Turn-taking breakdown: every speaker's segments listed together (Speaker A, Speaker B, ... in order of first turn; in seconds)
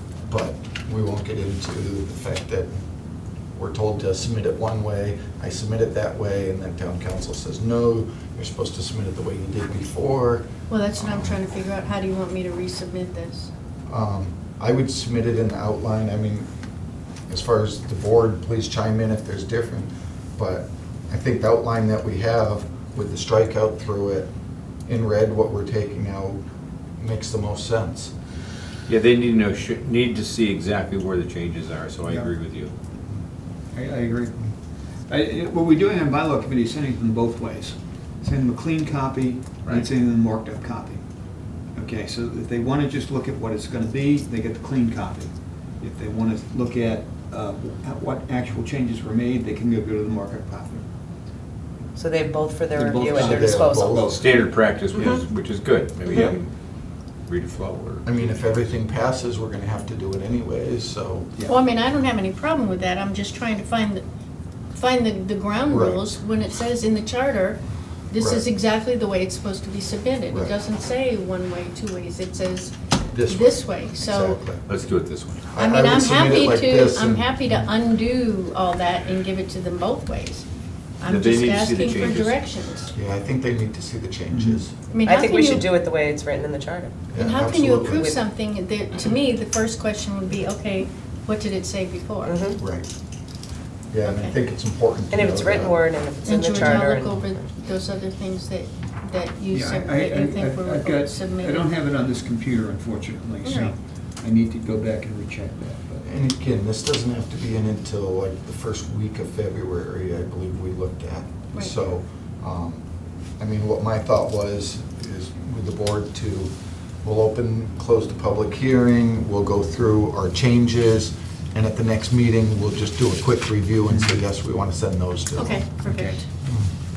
Speaker A: 0.3-2.7, 3.5-10.5, 11.0-11.3, 13.9-16.5, 17.3-24.3, 24.9-26.4, 27.0-28.1, 53.1-54.1, 58.0-61.3, 65.7-66.0, 68.2-68.4, 70.3-70.6, 73.1-74.6, 75.5-77.6, 82.9-84.7, 87.1-88.2, 92.6-92.9, 93.9-95.8, 106.0-112.8, 113.4-125.8, 126.4-126.7
Speaker B: 10.7-13.5, 61.5-64.0, 64.7-74.5, 75.5-80.5, 81.0-82.9, 84.9-85.7, 87.2-92.4, 94.0-94.4, 96.2-101.7, 103.4-103.8, 125.3-126.2
Speaker C: 28.9-32.7, 54.1-56.5, 57.2-58.1, 74.6-75.5, 81.0-82.5
Speaker D: 32.1-32.3, 33.7-34.4, 35.1-41.0, 41.7-50.8, 52.7-54.5, 84.3-84.7, 99.5-106.1, 123.9-124.2, 125.8-126.2
Speaker E: 51.9-54.0, 54.9-55.2, 85.0-87.0, 92.2-92.6, 95.1-97.5